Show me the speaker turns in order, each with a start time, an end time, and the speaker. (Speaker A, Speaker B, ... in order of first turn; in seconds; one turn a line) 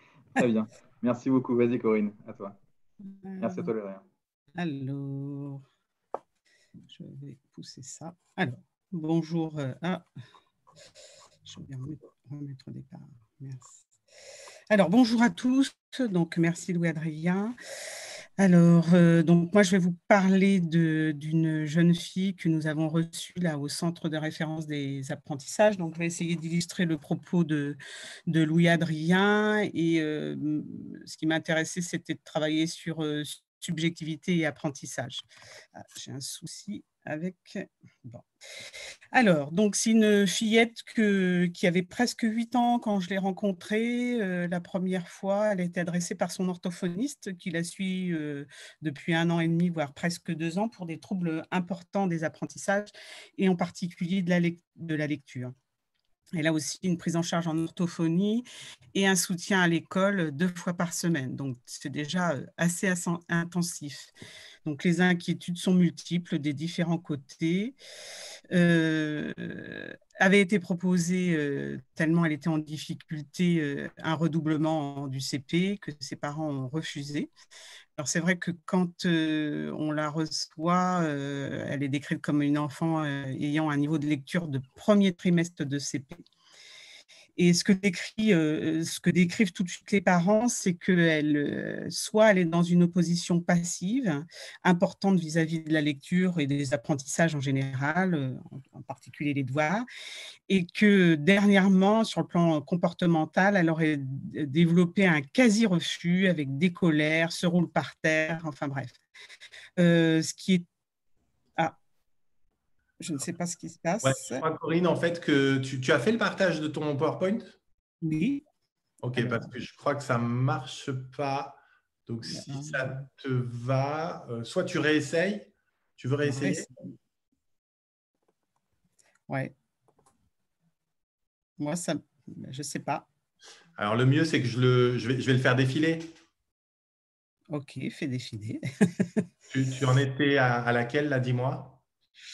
Speaker A: 0.3-2.6
Speaker B: 3.2-3.7
Speaker A: 3.4-4.0
Speaker B: 4.6-5.6
Speaker B: 6.9-10.0
Speaker B: 11.5-13.8
Speaker B: 14.7-17.6
Speaker B: 18.4-35.2
Speaker B: 35.8-38.2
Speaker B: 39.1-55.5
Speaker B: 56.3-64.1
Speaker B: 64.7-67.8
Speaker B: 68.5-77.3
Speaker B: 78.0-86.2
Speaker B: 87.4-99.9
Speaker B: 100.5-109.0
Speaker B: 109.8-110.7
Speaker B: 113.0-114.5
Speaker C: 114.0-117.6
Speaker B: 118.0-118.4
Speaker C: 119.0-126.7
Speaker B: 119.2-119.5
Speaker B: 122.3-122.9
Speaker B: 126.4-126.7
Speaker B: 131.6-133.1
Speaker C: 133.8-136.1
Speaker B: 137.5-139.3
Speaker C: 139.5-141.8